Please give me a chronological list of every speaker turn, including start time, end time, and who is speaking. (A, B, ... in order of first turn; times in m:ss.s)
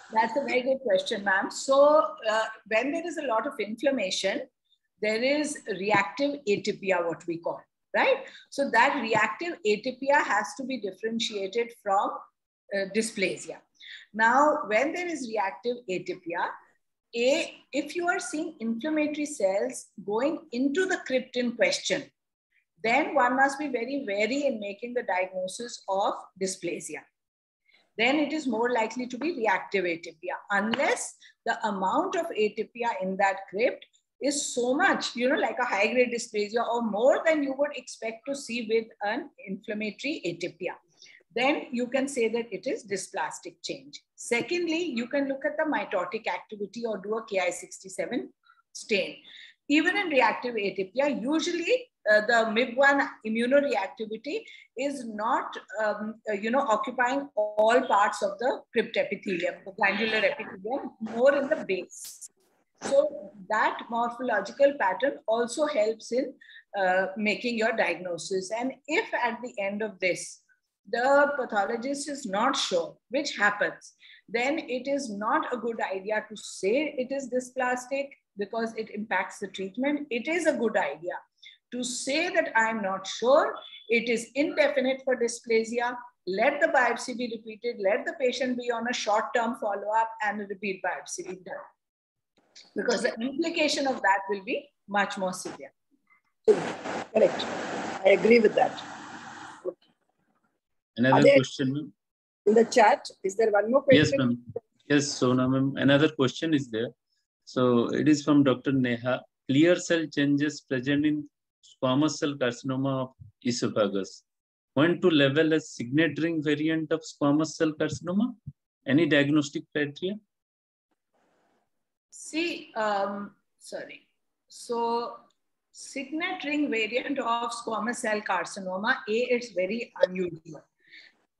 0:00.1-0:04.5 A
0:05.0-0:12.2 A
0:12.7-0:13.6 A
0:14.1-0:16.5 A
0:17.2-0:22.1 A
0:22.8-0:27.0 A
0:28.0-0:40.8 A
0:41.3-1:02.3 A
1:02.8-1:21.2 A
1:21.7-1:31.6 A
1:32.8-1:35.7 A
1:36.5-1:38.8 B
1:41.0-1:41.9 C
1:41.1-1:41.4 B
1:42.5-1:44.2 B
1:43.9-1:46.9 C
1:47.5-1:54.2 C
1:54.8-2:00.2 C
2:02.1-2:05.2 A
2:05.8-2:10.7 A